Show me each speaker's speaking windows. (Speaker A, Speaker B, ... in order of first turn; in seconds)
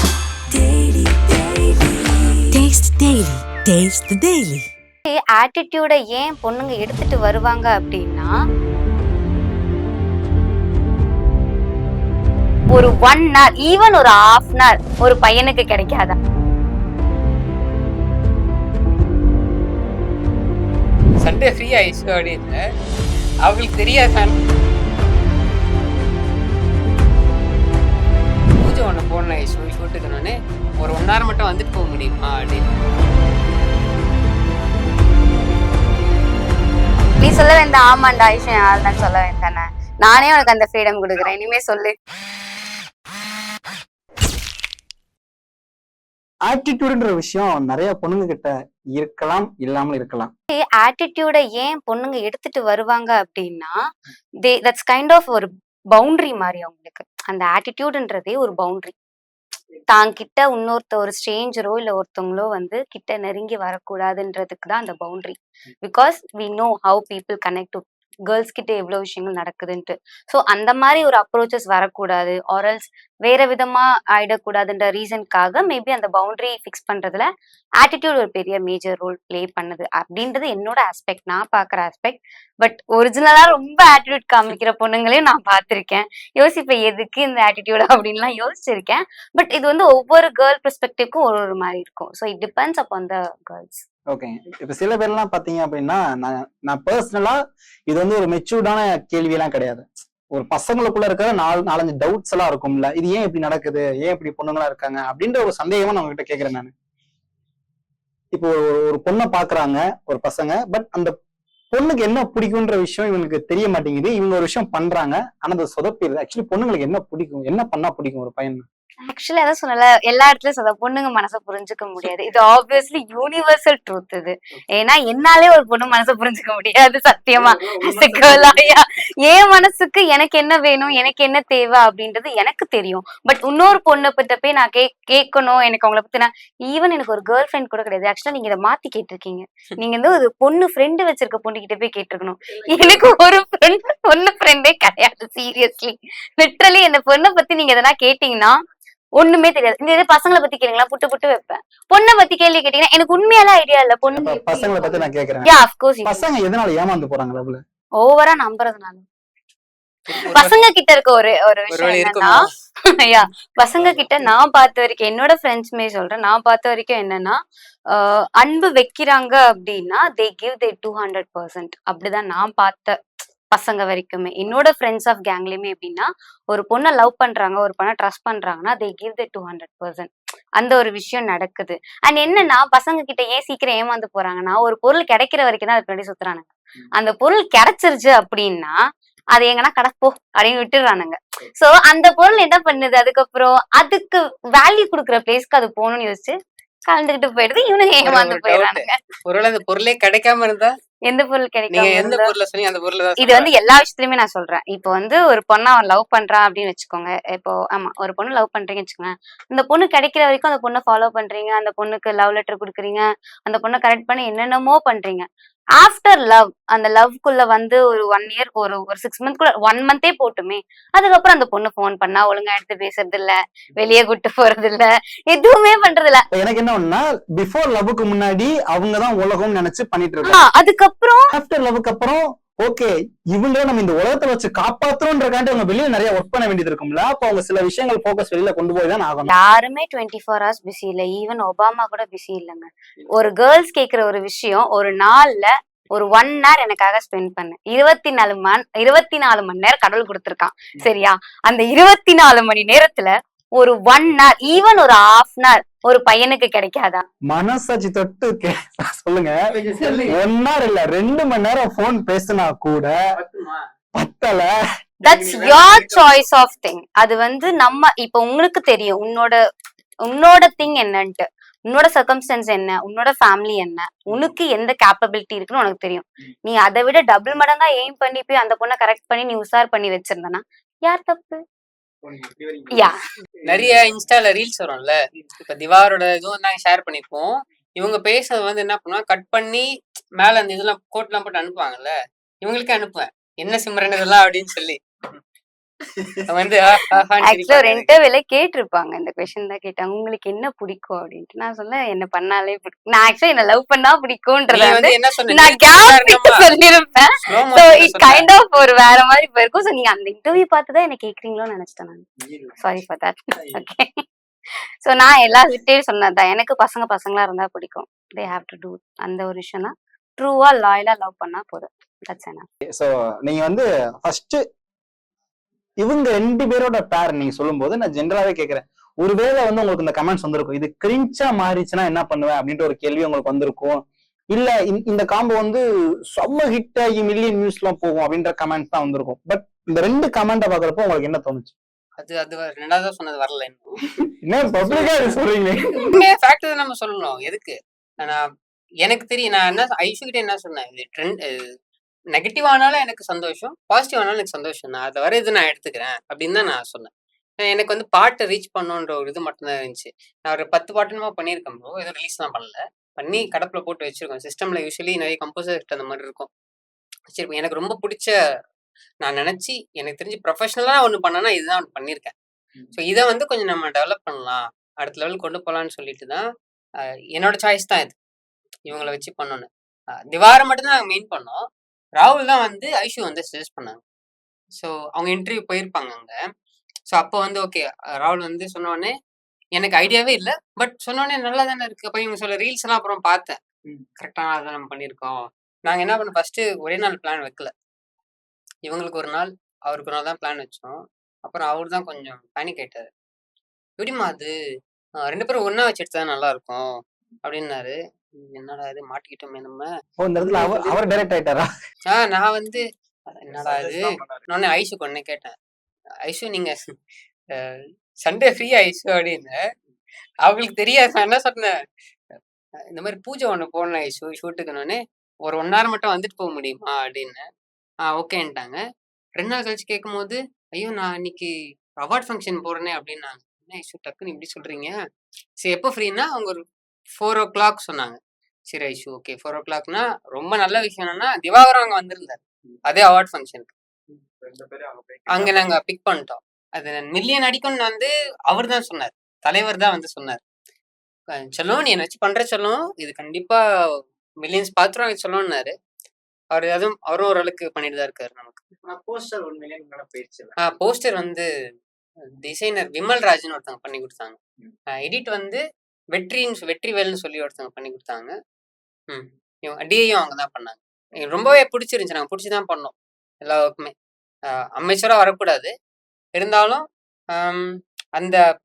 Speaker A: 0.5-4.7
Speaker B: 5.0-8.3, 12.7-16.1, 37.2-41.9, 50.5-53.7, 54.4-58.9, 59.9-77.2, 77.8-93.8, 119.0-148.6, 149.2-156.3, 158.0-159.0, 160.1-162.3, 163.0-167.4, 167.9-172.9, 173.5-188.8, 189.3-196.3, 196.9-198.9, 201.1-202.3, 203.2-215.2, 215.8-226.2, 230.2-231.3, 239.3-257.0, 265.0-269.4, 270.0-281.4, 297.2-312.0, 312.6-314.0, 314.8-322.4
Speaker C: 21.2-22.6, 23.4-24.3, 28.6-32.9, 160.1-160.5, 161.7-162.4, 163.8-164.3, 198.0-200.7, 201.7-203.5, 259.5-260.2, 263.1-263.6, 265.2-266.0, 283.4-289.7, 290.2-294.8, 296.2-297.9, 304.5-306.5, 307.2-308.3, 342.0-343.9, 344.5-345.2, 345.8-348.2, 348.8-351.5, 352.1-356.9, 357.4-366.3, 367.1-368.1, 369.0-372.1, 372.7-376.2, 377.1-377.9, 378.6-379.5, 380.1-381.4, 382.0-383.8, 384.5-386.1, 386.9-388.9, 389.6-393.4, 394.0-397.5, 398.6-402.9, 403.8-404.3, 405.0-409.7, 410.3-410.6, 411.9-415.3, 416.1-416.5, 417.4-419.4, 420.2-421.6, 422.7-427.2, 427.9-428.6, 429.2-434.7, 435.4-436.4, 437.0-443.5, 445.1-450.2, 451.3-453.4, 454.2-455.5, 456.3-458.4, 460.4-461.3, 462.2-464.2, 464.8-465.4, 465.9-468.1, 468.9-473.7, 474.5-475.5, 476.1-476.6, 477.2-478.2
Speaker D: 46.5-50.3, 94.1-97.4, 97.9-106.7, 108.3-111.1, 111.7-118.6, 154.1-157.6, 226.3-230.4, 231.3-239.3, 257.3-259.4, 260.1-262.9, 263.9-264.5, 322.7-324.4, 325.8-335.6, 336.1-341.5, 344.2-345.9, 410.0-411.5
Speaker E: 127.7-128.5, 282.0-282.8, 283.4-283.9, 413.4-414.2, 444.2-445.5, 458.6-460.3